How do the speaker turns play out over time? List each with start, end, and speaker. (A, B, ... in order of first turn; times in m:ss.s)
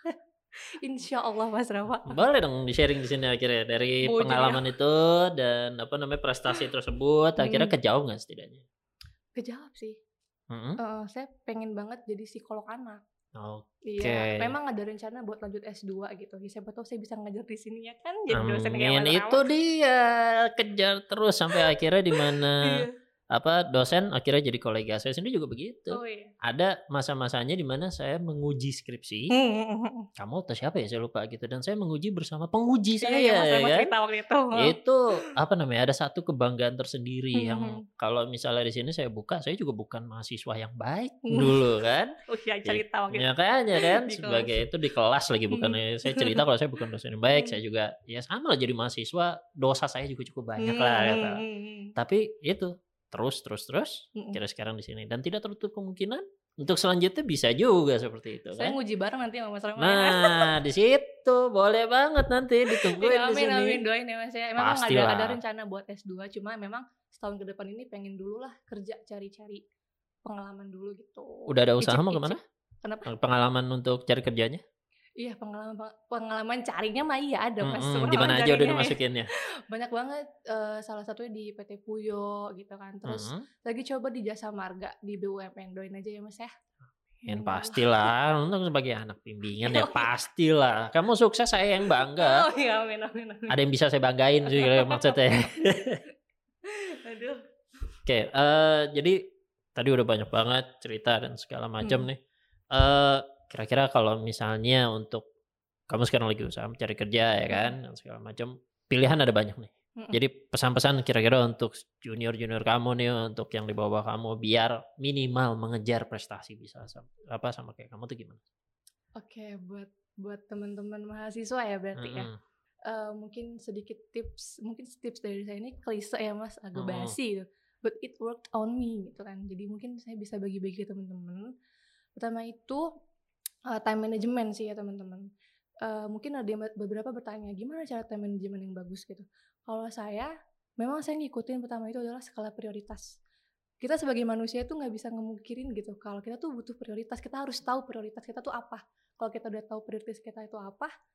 0:00.7-0:02.2 A
0:02.1-0:08.6 B
0:04.0-0:04.7 A
0:07.4-0:07.7 A
0:09.4-0:10.0 A
0:10.5-0:10.8 B
0:10.8-0:13.0 A
0:13.4-0:14.5 B
0:13.9-0:19.4 A
0:18.3-0:29.3 B
0:21.5-0:22.9 A
0:25.9-0:26.3 A
0:29.3-0:30.1 A
0:30.2-0:33.9 B
0:33.0-0:34.8 A
0:34.5-0:51.4 B
0:37.4-0:37.8 A
0:41.3-0:41.6 A
0:42.2-0:44.5 A
0:45.5-0:46.4 A
0:50.6-0:51.9 A
0:52.0-0:58.8 B
0:58.6-1:00.5 A
0:59.8-1:03.8 B
1:02.8-1:09.6 A
1:04.6-1:05.4 B
1:10.2-1:13.1 A
1:11.5-1:12.4 B
1:13.0-1:14.6 B
1:15.2-1:19.0 A
1:17.6-1:19.3 B
1:19.7-1:26.5 A
1:23.0-1:23.5 B
1:27.2-1:28.1 A
1:27.3-1:32.5 B
1:29.6-1:30.1 A
1:32.2-1:33.6 A
1:33.5-1:36.0 B
1:34.5-1:35.2 A
1:36.7-1:37.4 A
1:38.1-1:42.2 B
1:42.7-1:45.3 B
1:45.9-1:58.4 B
1:59.2-2:02.3 A
2:02.0-2:02.4 B
2:02.9-2:11.5 A
2:06.8-2:07.2 B
2:12.2-2:12.9 A
2:13.7-2:15.2 A
2:15.8-2:23.2 A
2:23.8-2:30.9 A